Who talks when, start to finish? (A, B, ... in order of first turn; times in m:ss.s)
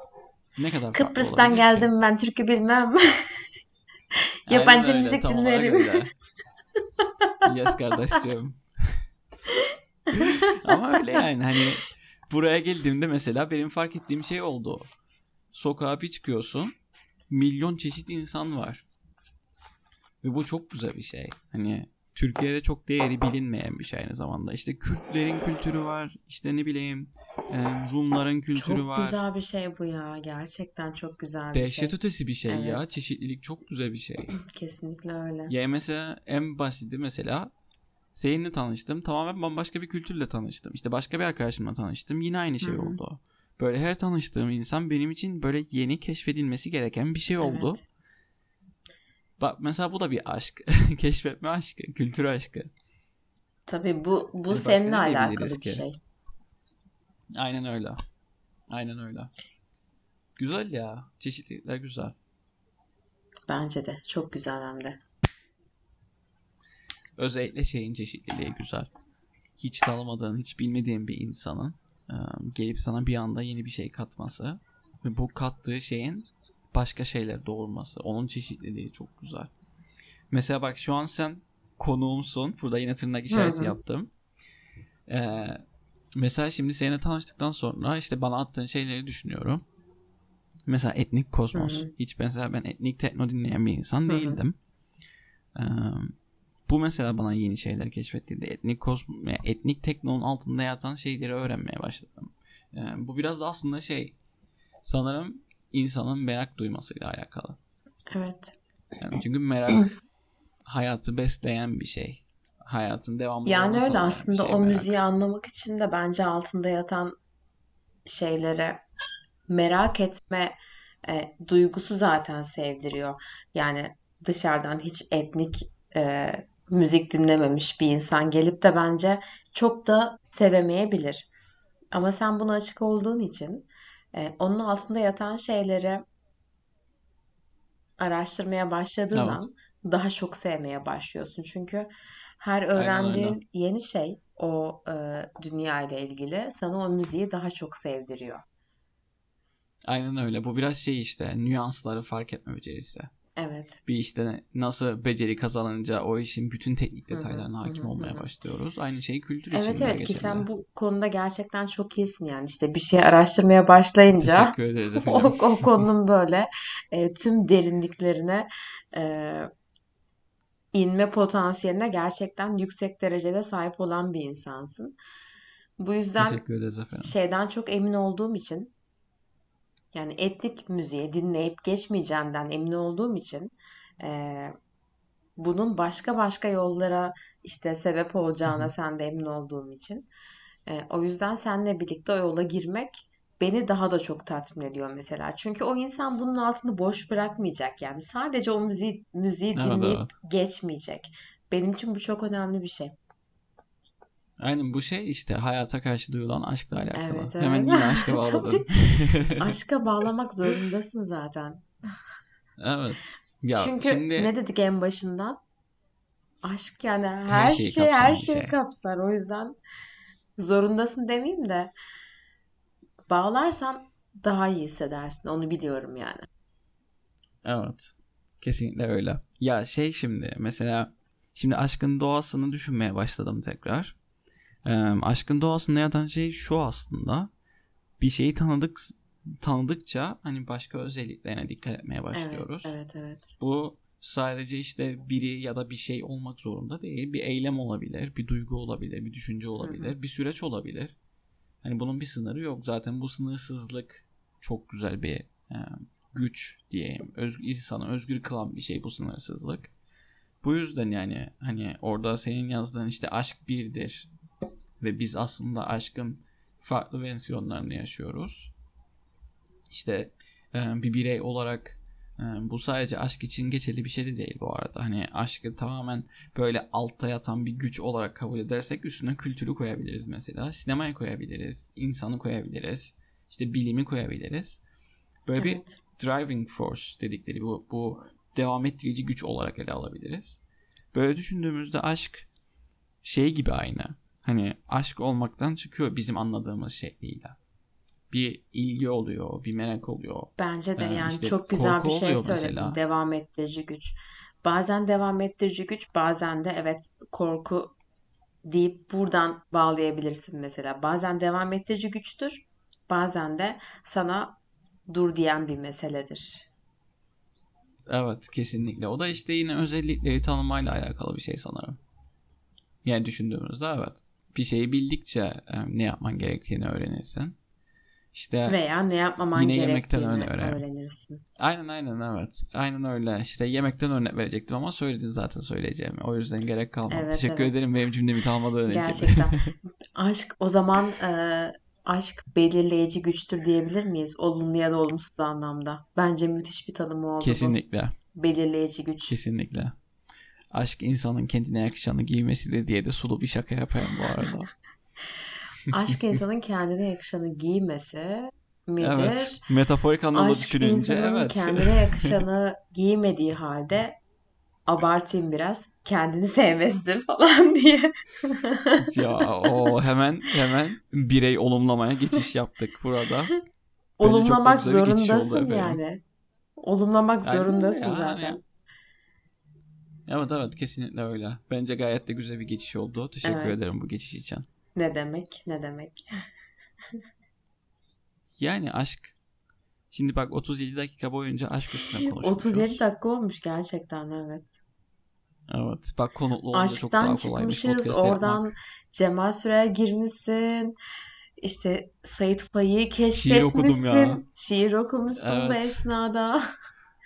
0:00.6-0:01.9 A
0:00.9-0:03.4 B
0:04.5-0:06.0 B
0:04.5-0:06.1 A
0:07.4-0:09.0 A
0:10.1-0:14.9 A
0:10.2-0:10.6 B
0:15.5-0:16.7 A
0:17.3-0:18.8 A
0:20.2-0:29.2 A
0:28.6-0:32.0 B
0:31.5-0:34.4 A
0:32.5-0:32.9 B
0:34.4-0:35.5 B
0:35.5-0:37.5 A
0:38.1-0:47.8 A
0:42.6-0:43.0 B
0:47.4-0:47.8 B
0:49.4-0:52.7 A
0:53.7-0:56.0 B
0:54.5-0:55.8 A
0:57.4-0:58.0 A
0:58.7-0:59.3 A
1:00.4-1:02.2 A
1:03.5-1:05.0 B
1:07.2-1:08.9 A
1:09.6-1:19.5 A
1:20.3-1:24.1 A
1:23.3-1:23.8 B
1:25.1-1:25.6 A
1:26.2-1:29.6 A
1:30.7-1:34.6 A
1:31.5-1:31.9 B
1:34.1-1:34.4 B
1:35.6-1:36.2 A
1:36.7-1:44.2 A
1:44.8-1:47.6 A
1:48.1-1:48.6 B
1:49.0-1:50.0 A
1:50.7-1:55.0 A
1:53.4-1:57.1 B
1:58.1-1:58.8 B
1:59.5-2:00.6 B
2:01.1-2:11.3 B
2:11.9-2:16.0 B
2:18.0-2:21.9 B
2:19.1-2:19.5 A
2:22.4-2:28.4 B
2:22.7-2:23.4 A
2:29.9-2:33.1 A
2:33.4-2:33.8 B
2:33.9-2:40.5 A
2:37.1-2:38.3 B
2:39.5-2:49.5 B
2:44.2-2:45.9 A
2:50.7-2:55.0 B
2:55.8-2:56.4 B
2:56.2-2:57.1 A
2:57.0-2:58.7 B
2:59.9-3:04.5 B
3:05.4-3:10.1 B
3:10.7-3:22.9 B
3:19.6-3:20.2 A
3:24.4-3:29.4 A
3:26.9-3:28.6 B
3:29.4-3:31.7 B
3:32.6-3:34.3 A
3:33.6-3:35.4 B
3:36.4-3:39.6 B
3:37.3-3:38.6 A
3:40.4-3:41.7 B
3:43.1-3:46.3 B
3:47.4-3:54.0 A
3:54.6-3:57.3 A
3:58.0-4:02.8 A
4:02.1-4:03.3 B
4:03.4-4:11.0 A
4:09.6-4:09.9 B
4:11.6-4:19.7 A
4:20.4-4:24.1 A
4:24.8-4:28.5 A
4:29.7-4:44.6 A
4:45.3-4:50.4 A
4:45.4-4:45.8 B
4:50.9-4:52.3 A
4:53.0-4:57.4 A
4:58.1-5:02.8 A
5:00.4-5:07.8 B
5:08.5-5:14.4 B
5:14.9-5:16.5 B
5:17.9-5:21.8 A
5:22.8-5:27.4 A
5:28.1-5:28.6 A
5:28.5-5:31.2 B
5:29.3-5:30.6 A
5:31.4-5:39.3 A
5:36.9-5:37.6 B
5:38.7-5:47.6 B
5:47.2-5:48.0 A
5:48.1-5:49.2 B
5:49.1-5:49.8 A
5:50.5-5:54.5 A
5:55.7-5:59.4 B
5:58.8-6:02.2 A
6:00.1-6:04.0 B
6:04.7-6:09.7 B
6:08.8-6:13.3 A
6:14.0-6:16.0 B
6:14.0-6:15.8 A
6:16.6-6:18.4 B
6:17.2-6:18.4 A
6:20.1-6:24.5 A
6:23.2-6:23.7 B
6:24.8-6:26.0 B
6:28.4-6:29.2 A
6:29.9-6:32.8 A
6:32.0-6:34.6 B
6:35.5-6:38.5 A
6:36.5-6:40.8 B
6:41.4-6:46.4 B
6:43.1-6:44.2 A
6:45.2-6:45.9 A